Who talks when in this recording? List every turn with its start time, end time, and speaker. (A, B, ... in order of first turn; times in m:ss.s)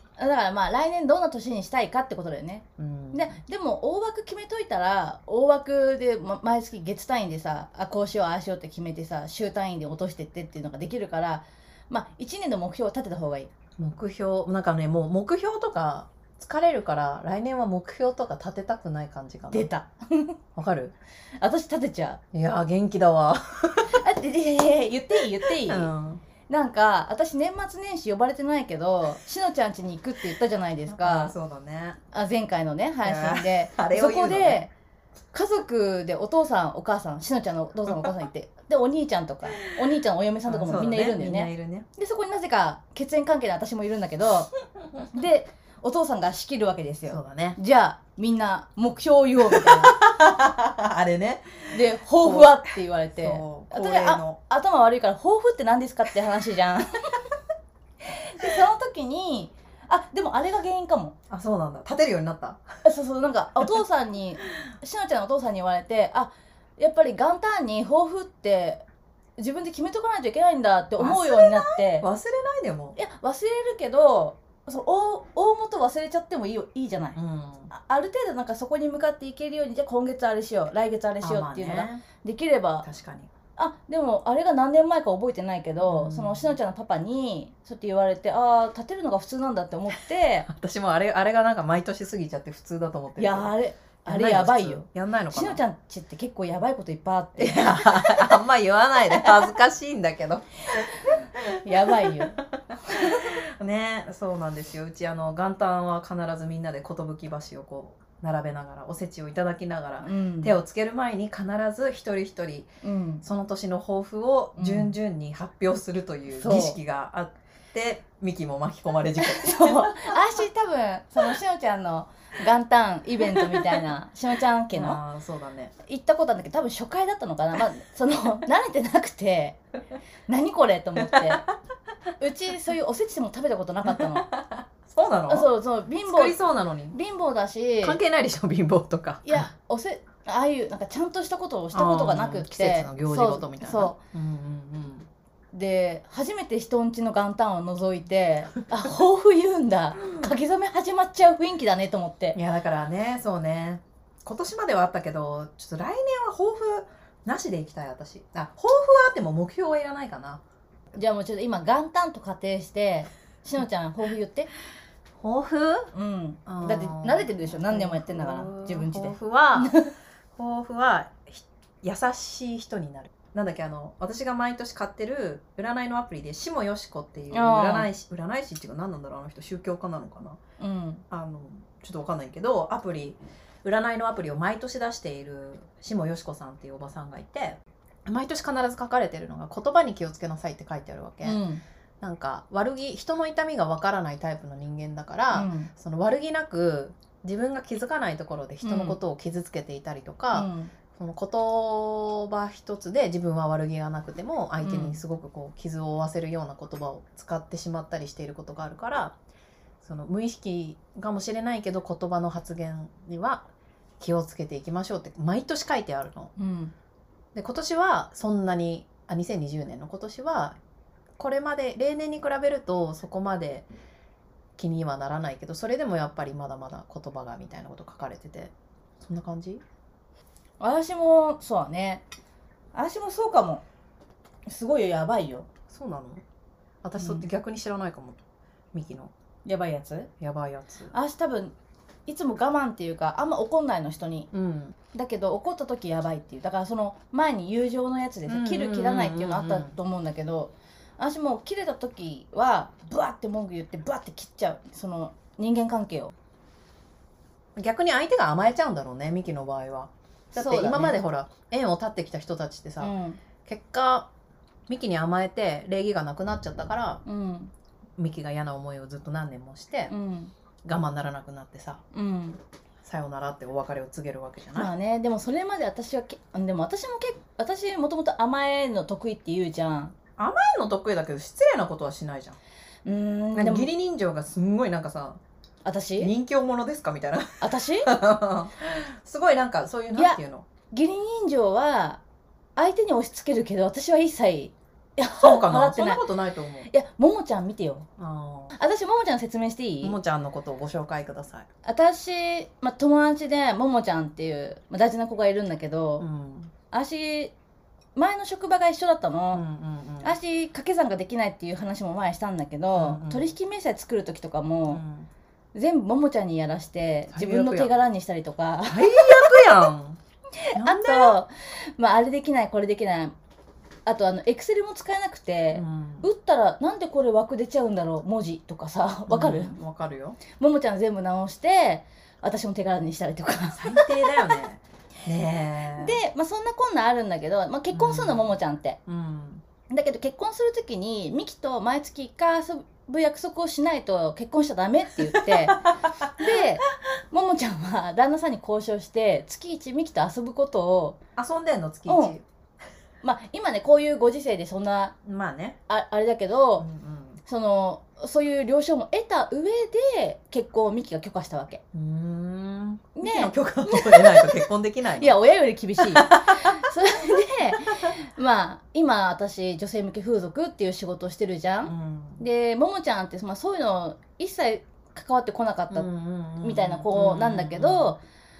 0:00.2-0:13.5 A
0:02.8-0:03.4 B
0:13.8-0:19.7 B
0:19.5-0:20.4 A
0:20.6-0:20.9 B
0:21.4-0:22.2 A
0:22.3-0:24.0 B
0:23.9-0:25.9 A
0:25.6-0:26.2 B
0:26.5-0:31.3 A
0:30.9-0:32.0 B
0:32.1-0:34.7 A
0:33.0-0:34.6 B
0:35.3-0:44.5 A
0:40.5-0:41.8 B
0:45.1-0:49.9 A
0:47.1-0:47.6 B
0:49.5-0:54.4 B
0:51.7-0:57.2 A
0:58.0-1:01.1 A
1:01.3-1:02.6 B
1:02.8-1:08.8 A
1:09.4-1:12.0 A
1:11.0-1:13.0 B
1:13.0-1:17.2 A
1:17.2-1:17.7 B
1:17.7-1:22.8 A
1:21.2-1:22.0 B
1:22.8-1:23.3 B
1:23.6-1:30.5 A
1:25.8-1:26.6 B
1:30.4-1:33.5 B
1:33.2-1:38.4 A
1:34.0-1:35.6 B
1:37.4-2:00.2 B
1:39.1-1:39.5 A
1:40.8-1:43.3 A
1:50.0-1:50.5 A
1:52.8-1:53.2 A
1:54.6-1:54.9 A
1:56.3-1:56.8 A
1:59.2-2:05.0 A
2:03.3-2:03.8 B
2:04.7-2:05.7 B
2:05.8-2:09.6 A
2:10.3-2:11.4 A
2:11.0-2:11.5 B
2:12.2-2:14.3 A
2:13.9-2:15.5 B
2:15.3-2:16.4 A
2:16.0-2:17.0 B
2:16.9-2:18.0 A
2:17.8-2:19.5 B
2:19.2-2:24.0 A
2:21.7-2:25.1 B
2:25.5-2:32.4 A
2:32.3-2:40.4 B
2:40.9-2:44.5 A
2:45.2-2:45.9 B
2:45.9-2:49.9 A
2:46.4-2:49.8 B
2:50.4-3:00.4 B
2:57.3-2:57.9 A
3:00.6-3:01.0 A
3:01.1-3:11.4 B
3:11.2-3:11.6 A
3:12.0-3:29.1 B
3:15.3-3:15.7 A
3:18.6-3:19.0 A
3:20.3-3:20.7 A
3:24.6-3:25.0 A
3:29.8-3:33.5 B
3:34.0-3:36.3 B
3:36.4-3:36.7 A
3:37.3-3:40.6 B
3:41.2-3:43.7 B
3:44.6-3:49.6 B
3:50.6-3:52.0 A
3:52.7-3:53.6 A
3:54.4-3:55.5 A
3:55.7-3:56.2 B
3:56.8-3:58.2 B
3:57.0-3:57.2 A
3:58.7-3:59.1 B
3:59.4-4:00.1 A
4:00.2-4:00.9 B
4:00.9-4:01.5 A
4:02.0-4:04.3 A
4:04.3-4:04.8 B
4:04.9-4:16.1 A
4:08.3-4:09.7 B
4:17.6-4:24.1 B
4:20.3-4:21.0 A
4:22.8-4:23.2 A
4:24.7-4:27.0 B
4:27.0-4:27.5 A
4:28.0-4:29.9 B
4:29.9-4:30.3 A
4:30.6-4:31.8 B
4:31.9-4:32.4 A
4:32.8-4:34.7 B
4:34.5-4:39.9 A
4:40.2-4:42.4 B
4:42.8-4:43.7 A
4:43.3-4:45.2 B
4:45.6-4:46.1 A
4:46.0-4:50.4 B
4:47.4-4:47.9 A
4:50.7-4:52.0 A
4:52.6-4:56.0 A
4:55.2-4:56.7 B
4:56.7-4:57.9 A
4:58.0-4:58.6 B
4:58.6-5:00.0 A
4:59.8-5:01.5 B
5:01.6-5:06.0 A
5:06.0-5:06.5 B
5:06.7-5:07.3 A
5:08.0-5:09.4 A
5:09.3-5:10.2 B
5:10.0-5:14.8 A
5:12.7-5:13.3 B
5:14.7-5:15.1 B
5:15.5-5:19.6 A
5:17.1-5:17.8 B
5:18.6-5:20.0 B
5:20.4-5:23.1 A
5:20.5-5:21.2 B
5:23.8-5:29.6 A
5:25.5-5:26.1 B
5:29.1-5:30.2 B
5:30.3-5:34.3 A
5:33.6-5:36.0 B
5:35.8-5:38.8 A
5:37.7-5:38.3 B
5:38.8-5:39.4 B
5:39.7-5:45.6 A
5:45.1-5:46.4 B
5:46.2-5:51.0 A
5:51.2-5:52.2 B
5:51.9-5:52.1 A
5:53.0-5:55.0 A
5:55.0-5:55.6 B
5:55.7-5:56.6 A
5:56.6-5:57.2 B
5:57.2-6:01.6 A
6:01.7-6:05.2 B
6:03.0-6:04.4 A
6:05.0-6:15.9 A
6:05.8-6:06.7 B
6:11.6-6:12.2 B
6:15.7-6:18.0 B
6:16.4-6:18.0 A